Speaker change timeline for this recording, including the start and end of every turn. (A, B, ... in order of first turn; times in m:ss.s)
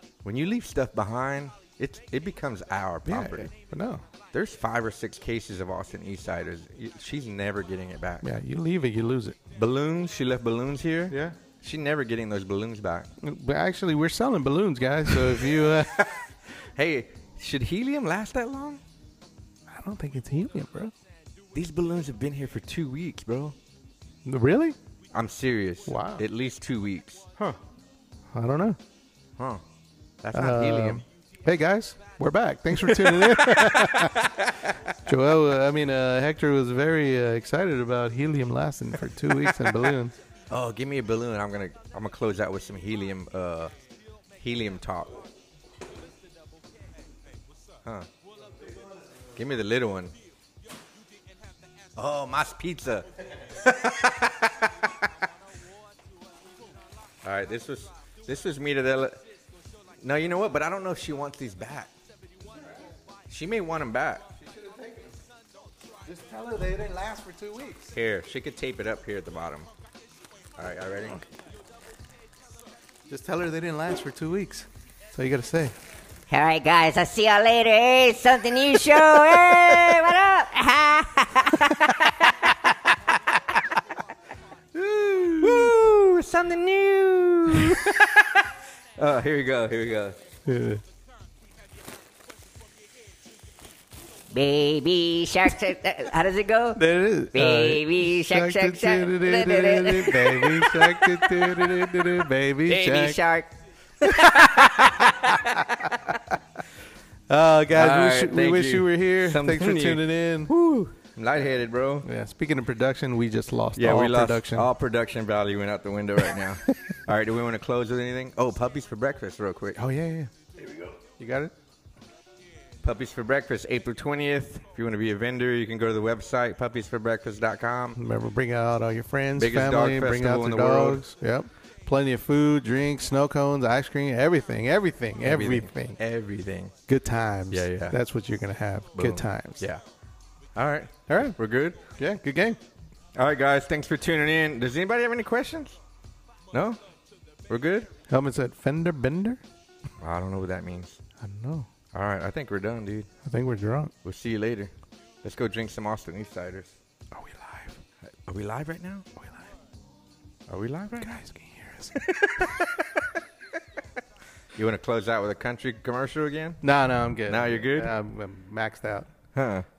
0:00.2-0:03.5 A
0:03.0-0:04.0 B
0:04.3-0:08.2 A
0:08.2-0:09.4 B
0:09.5-0:13.1 A
0:11.1-0:11.4 B
0:13.2-0:16.2 B
0:15.0-0:18.8 A
0:19.7-0:20.9 B
0:21.5-0:23.6 A
0:24.2-0:24.8 B
0:25.1-0:27.6 A
0:25.8-0:26.2 B
0:28.3-0:28.8 B
0:29.4-0:29.6 A
0:30.2-0:31.0 A
0:30.3-0:34.3 B
0:32.7-0:34.9 A
0:35.0-0:40.1 B
0:39.5-0:39.9 A
0:40.5-0:43.7 A
0:44.4-0:45.2 A
0:49.3-0:50.1 A
0:52.0-0:55.1 A
0:57.2-0:59.2 A
0:59.9-1:01.9 A
1:02.5-1:02.9 B
1:03.3-1:04.3 A
1:04.4-1:05.2 B
1:06.0-1:07.9 B
1:07.9-1:09.7 A
1:10.6-1:11.2 A
1:13.1-1:15.7 B
1:16.3-1:22.1 C
1:24.7-1:25.7 B
1:25.3-1:30.2 A
1:30.4-1:30.8 B
1:34.3-1:36.8 C
1:36.7-1:43.2 B
1:37.3-1:41.0 C
1:42.7-1:43.5 C
1:43.0-1:43.2 A
1:44.0-1:46.2 B
1:44.0-1:45.0 C
1:44.4-1:45.1 A
1:47.3-1:50.5 B
1:47.7-1:52.1 A
1:52.0-1:54.7 B
1:53.7-1:59.8 A
1:59.7-2:00.3 B
2:01.2-2:01.5 B
2:02.8-2:08.0 A
2:07.9-2:16.0 B
2:09.4-2:11.0 A
2:15.2-2:16.7 A
2:16.9-2:19.7 B
2:17.5-2:18.0 A
2:19.0-2:19.8 A
2:20.5-2:21.9 A
2:21.1-2:21.4 B
2:21.9-2:22.6 B
2:23.1-2:25.8 A
2:26.5-2:26.8 A
2:27.5-2:27.9 A
2:28.1-2:29.4 B
2:30.0-2:31.0 A
2:31.2-2:31.7 B
2:31.9-2:33.1 A
2:33.2-2:33.9 B
2:34.0-2:34.7 A
2:35.2-2:36.7 A
2:37.1-2:37.8 B
2:38.0-2:39.1 A
2:39.2-2:39.5 B
2:40.5-2:41.2 A
2:41.0-2:42.0 B
2:41.9-2:43.1 A
2:44.5-2:46.6 A
2:46.6-2:49.1 B
2:47.3-2:47.9 A
2:49.3-2:49.6 A